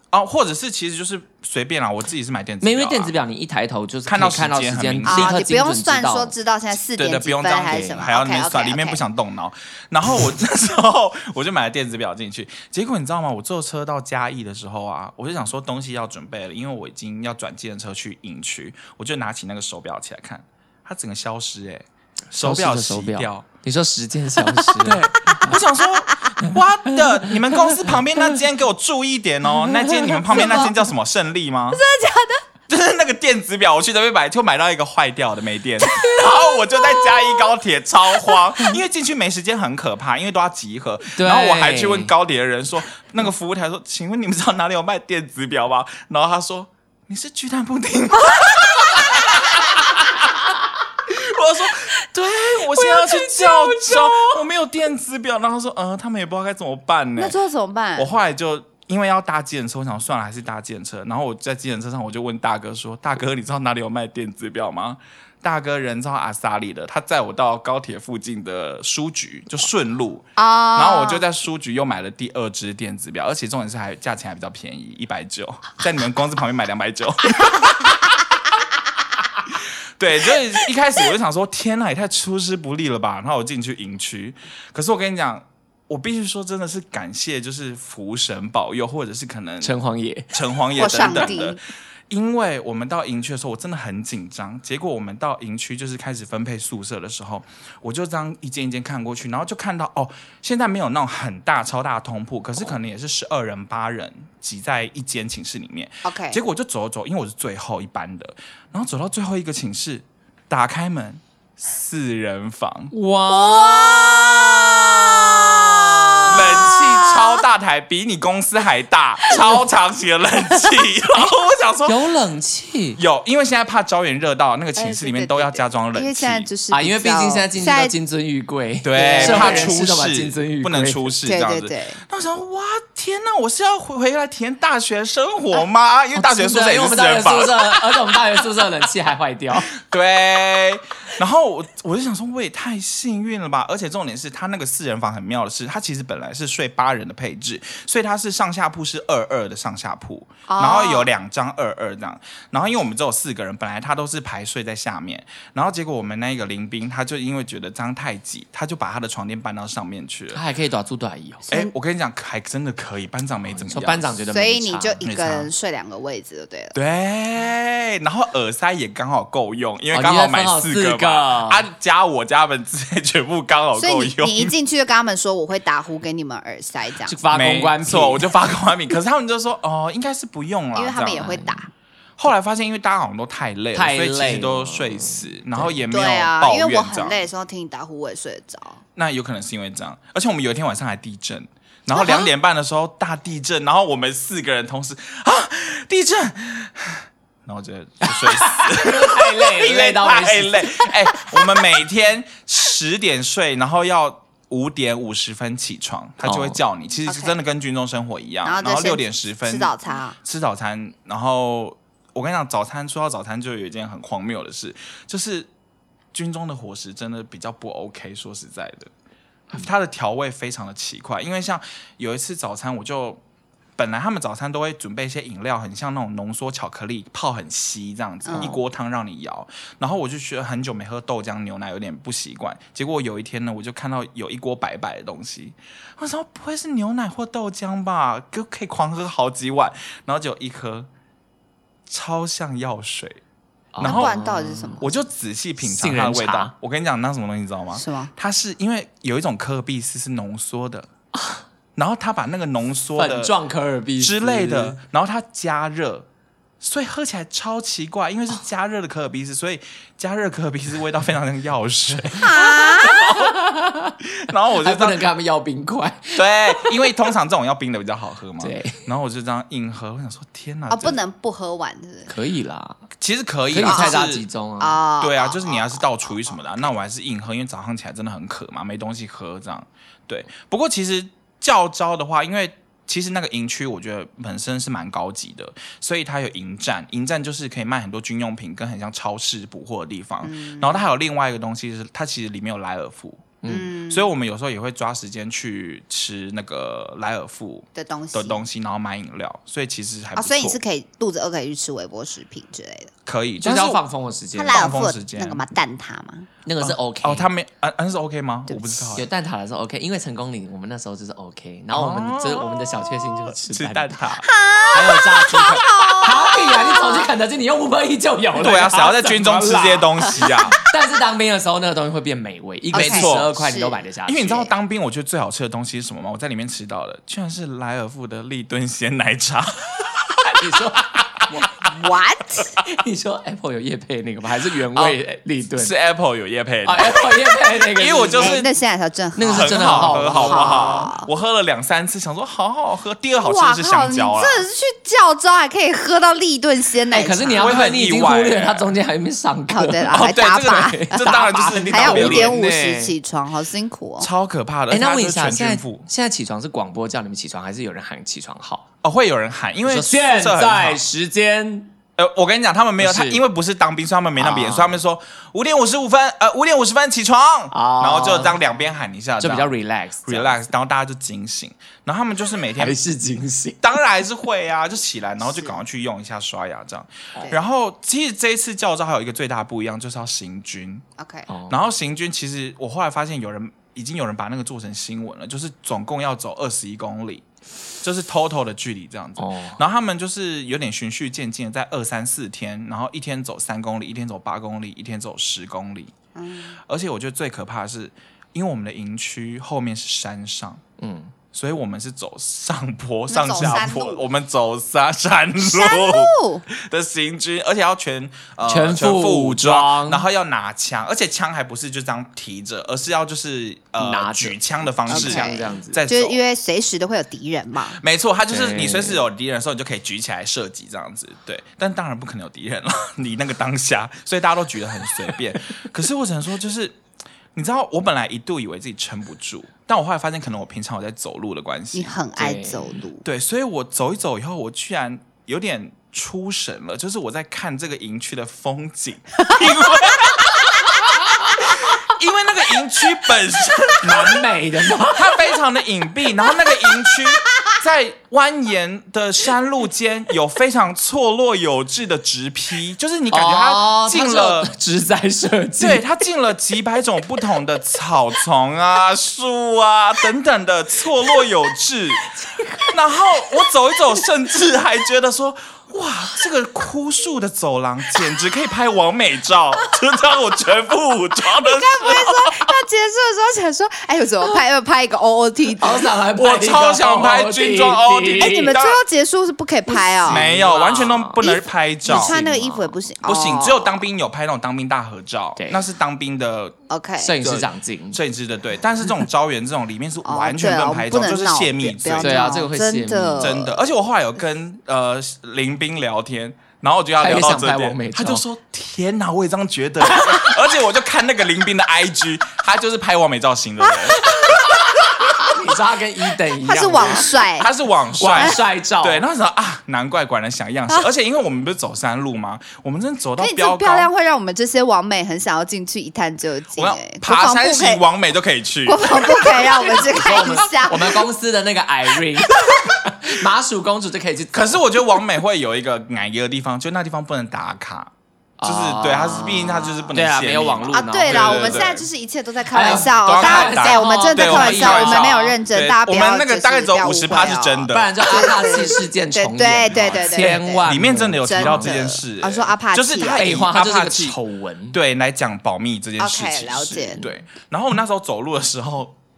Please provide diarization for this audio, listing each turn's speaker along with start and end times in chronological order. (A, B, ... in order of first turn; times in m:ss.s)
0:00.1-0:03.1 A
0:02.6-0:06.3 B
0:04.0-0:05.3 A
0:05.0-0:09.0 C
0:07.0-0:23.4 A
0:07.7-0:08.0 B
0:22.4-0:25.6 B
0:24.8-0:31.8 A
0:26.4-0:28.2 B
0:29.7-0:30.7 B
0:30.3-0:30.7 C
0:31.7-0:32.4 C
0:32.7-0:50.5 A
0:35.8-0:37.5 C
0:41.1-0:42.1 B
0:51.0-0:57.4 A
0:57.2-0:58.1 C
0:58.0-1:18.0 A
1:10.4-1:11.2 C
1:20.0-1:29.8 A
1:29.6-1:31.4 B
1:30.3-1:31.6 A
1:30.8-1:31.6 C
1:32.1-1:52.9 A
1:46.0-1:46.4 C
1:52.9-1:56.7 B
1:53.3-1:54.3 C
1:56.3-2:02.0 A
1:56.3-1:57.4 C
2:01.8-2:03.0 B
2:03.0-2:06.5 A
2:04.7-2:07.9 C
2:06.7-2:11.1 B
2:08.8-2:18.4 A
2:08.9-2:09.8 C
2:11.2-2:12.0 C
2:16.1-2:19.7 B
2:19.7-2:40.4 A
2:30.5-2:31.1 C
2:40.3-2:41.4 B
2:41.5-2:44.1 A
2:43.4-2:45.0 B
2:44.3-2:46.7 C
2:45.0-2:45.5 A
2:46.7-2:54.5 A
2:49.9-2:51.6 B
2:53.8-2:57.2 C
2:57.0-2:58.3 B
2:57.3-3:01.3 A
3:00.7-3:01.7 C
3:01.2-3:01.6 B
3:02.2-3:07.2 A
3:03.7-3:05.8 B
3:05.9-3:08.8 C
3:09.0-3:35.5 A
3:11.9-3:12.3 C
3:18.0-3:21.6 B
3:26.2-3:26.6 B
3:27.1-3:27.4 C
3:28.4-3:30.2 C
3:36.1-3:38.9 A
3:39.5-3:43.2 A
3:43.8-4:00.9 A
3:48.2-3:48.5 C
4:01.9-4:03.2 A
4:03.7-4:04.8 B
4:03.8-4:04.1 A
4:03.8-4:04.9 C
4:04.8-4:10.9 A
4:05.6-4:06.5 B
4:07.8-4:08.1 C
4:11.1-4:11.4 B
4:11.8-4:13.3 A
4:13.0-4:14.8 B
4:14.0-4:16.1 A
4:16.6-4:23.3 A
4:22.1-4:24.0 B
4:22.1-4:23.1 C
4:24.0-4:25.0 A
4:24.6-4:26.9 B
4:26.1-4:31.0 A
4:28.4-4:28.8 B
4:30.7-4:32.1 C
4:32.1-4:32.8 B
4:33.0-4:34.2 A
4:33.5-4:34.8 B
4:33.6-4:34.0 C
4:34.6-4:36.4 C
4:35.0-5:00.6 A
4:50.2-4:50.8 C
4:53.4-4:53.7 B
4:53.5-4:54.1 C
4:57.8-4:58.4 C
5:00.2-5:02.9 C
5:03.0-5:03.8 A
5:03.4-5:04.8 B
5:04.3-5:06.3 C
5:04.5-5:05.4 A
5:06.4-5:07.3 B
5:06.6-5:09.0 A
5:08.5-5:08.8 C
5:08.9-5:14.1 B
5:11.7-5:14.2 A
5:14.2-5:17.1 C
5:14.7-5:24.5 B
5:18.4-5:20.6 A
5:22.7-5:23.3 A
5:22.7-5:23.8 C
5:24.0-5:31.2 A
5:30.2-5:31.7 B
5:31.6-5:32.6 C
5:32.6-5:35.7 B
5:35.6-5:38.5 A
5:36.6-5:38.4 B
5:38.2-5:41.1 C
5:39.2-5:40.9 B
5:39.3-5:44.4 A
5:43.2-5:47.6 C
5:46.9-5:52.9 B
5:47.4-5:48.7 A
5:49.5-5:54.1 C
5:49.9-5:52.4 A
5:54.0-5:55.9 A
5:54.7-5:58.6 B
5:58.8-6:00.8 A
5:59.6-6:01.7 B
6:02.0-6:09.5 A
6:02.8-6:03.2 B
6:04.2-6:04.8 B
6:07.5-6:08.4 B
6:09.2-6:10.5 B
6:10.0-6:12.8 A
6:12.6-6:13.7 B
6:13.6-6:20.8 A
6:15.2-6:15.6 C
6:21.0-6:21.3 C
6:21.3-6:21.6 B
6:21.5-6:27.2 A
6:27.8-6:35.9 A
6:29.2-6:29.6 B
6:36.1-6:36.6 C
6:36.7-6:40.6 A
6:40.8-6:41.1 B
6:41.3-6:56.2 A
6:43.1-6:44.0 C
6:45.4-6:46.4 C
6:48.4-6:50.0 B
6:53.8-6:55.8 B
6:54.9-6:57.8 C
6:57.8-7:06.8 A
6:58.3-6:59.0 B
7:07.3-7:12.0 A
7:11.7-7:13.0 C
7:12.2-7:12.8 B
7:13.0-7:24.2 A
7:23.8-7:25.2 B
7:24.8-7:34.5 A
7:33.1-7:35.8 B
7:35.6-7:42.1 A
7:42.1-7:42.7 B
7:42.6-7:52.5 A
7:51.3-7:55.9 C
7:55.6-7:58.5 B
7:56.1-7:58.8 A
7:58.2-8:00.3 C
7:59.7-8:01.2 B
8:00.0-8:02.2 A
8:01.2-8:03.8 C
8:01.8-8:02.8 B
8:03.0-8:06.5 A
8:05.4-8:05.6 B
8:06.7-8:07.2 C
8:07.0-8:08.0 B
8:07.2-8:12.4 A
8:10.0-8:13.6 C
8:12.0-8:13.4 B
8:13.2-8:24.6 A
8:17.0-8:18.2 B
8:19.9-8:20.3 B
8:23.9-8:24.5 C
8:24.0-8:27.1 B
8:26.4-8:27.5 C
8:27.4-8:33.9 A
8:28.0-8:29.0 B
8:33.2-8:37.8 C
8:36.6-8:39.7 A
8:38.6-8:41.0 C
8:39.7-8:44.6 B
8:44.3-8:47.9 A
8:48.4-8:51.7 B
8:48.4-8:51.8 A
8:50.7-9:00.6 C
8:52.5-8:55.4 B
8:52.6-8:58.3 A
8:57.7-9:01.8 B
8:59.7-9:04.2 A
9:01.2-9:03.3 C
9:03.1-9:04.8 B
9:04.7-9:08.9 A
9:06.0-9:07.0 C